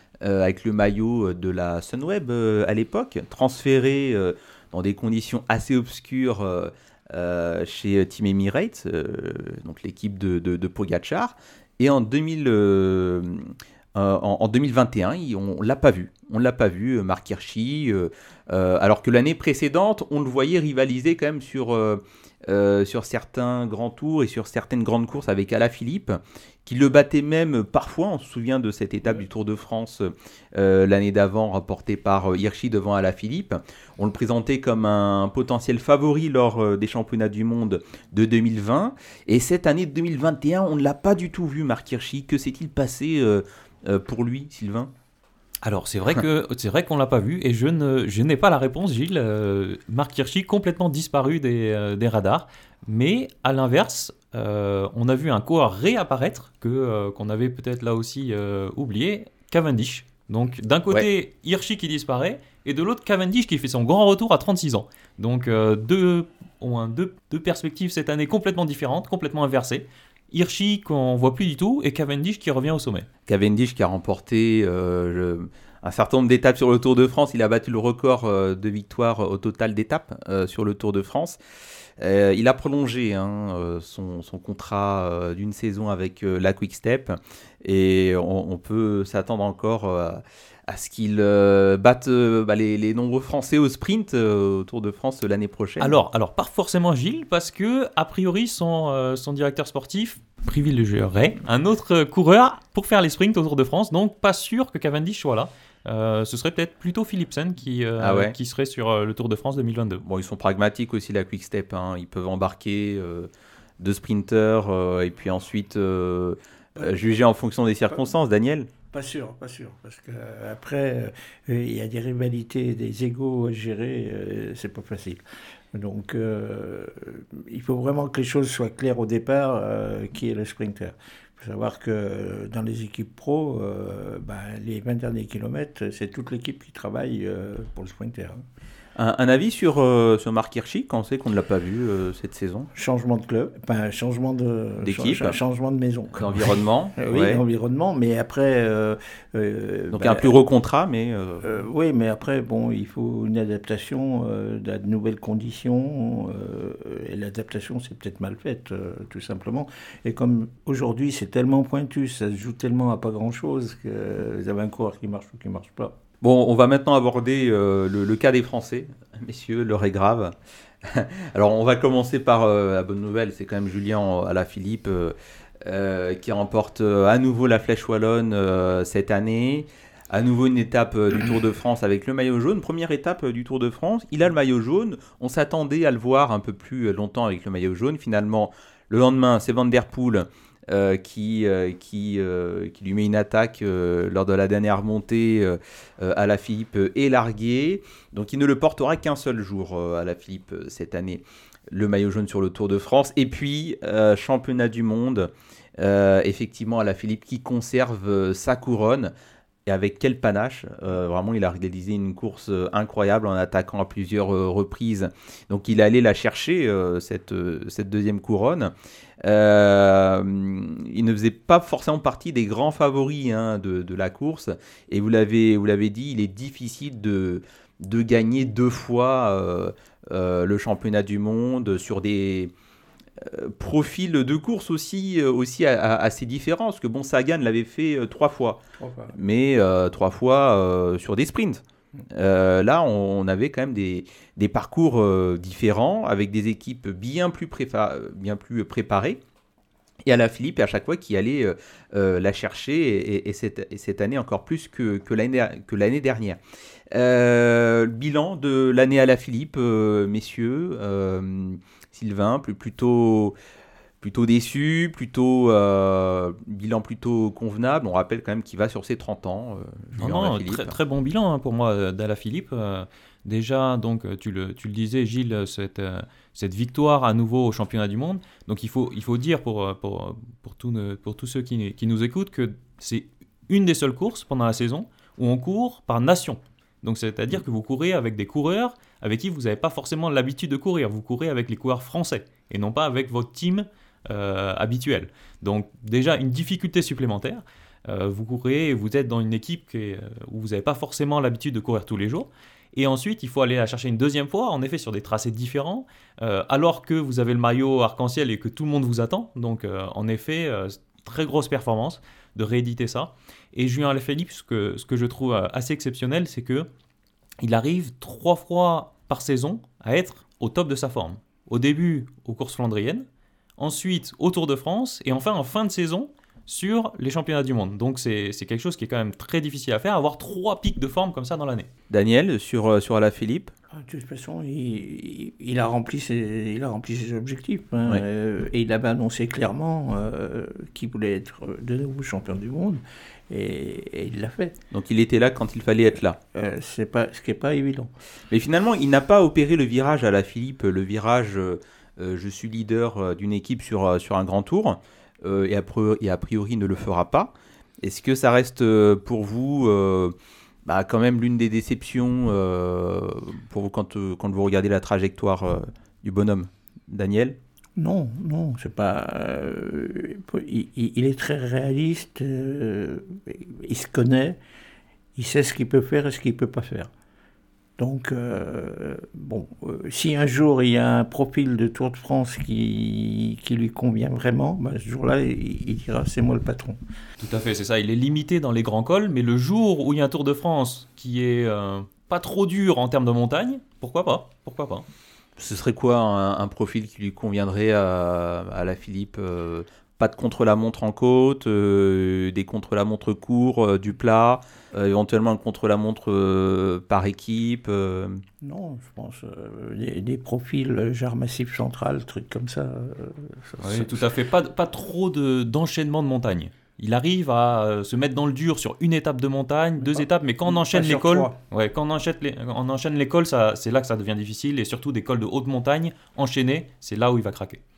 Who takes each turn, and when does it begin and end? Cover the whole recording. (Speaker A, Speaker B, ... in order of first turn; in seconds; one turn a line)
Speaker A: 0.2-44.9
Speaker B: 45.6-73.1
Speaker A: 73.3-81.4
Speaker A: 82.0-96.0
Speaker B: 95.8-110.0
Speaker A: 108.0-108.3
Speaker A: 110.0-113.3
Speaker A: 113.8-118.7
Speaker C: 116.8-117.1
Speaker C: 118.9-125.2
Speaker C: 125.7-138.4
Speaker A: 139.0-142.7
Speaker C: 142.8-150.3
Speaker A: 144.8-145.4
Speaker A: 146.2-147.4
Speaker A: 149.9-151.5
Speaker C: 151.4-166.0
Speaker A: 166.2-209.1
Speaker A: 209.7-218.7
Speaker A: 219.2-232.5
Speaker A: 233.2-238.6
Speaker C: 238.8-239.1
Speaker A: 239.1-249.2
Speaker A: 250.1-256.4
Speaker A: 256.9-263.4
Speaker A: 264.0-270.8
Speaker B: 270.0-316.7
Speaker B: 317.4-323.1
Speaker B: 323.6-331.7
Speaker A: 331.9-333.5
Speaker C: 333.7-344.6
Speaker A: 344.7-346.2
Speaker C: 346.3-347.9
Speaker A: 348.3-360.1
Speaker A: 360.7-367.4
Speaker C: 367.8-374.4
Speaker C: 375.2-376.9
Speaker C: 377.8-386.8
Speaker B: 387.2-394.9
Speaker A: 395.4-408.2
Speaker C: 408.4-414.1
Speaker B: 413.6-427.6
Speaker C: 420.0-421.4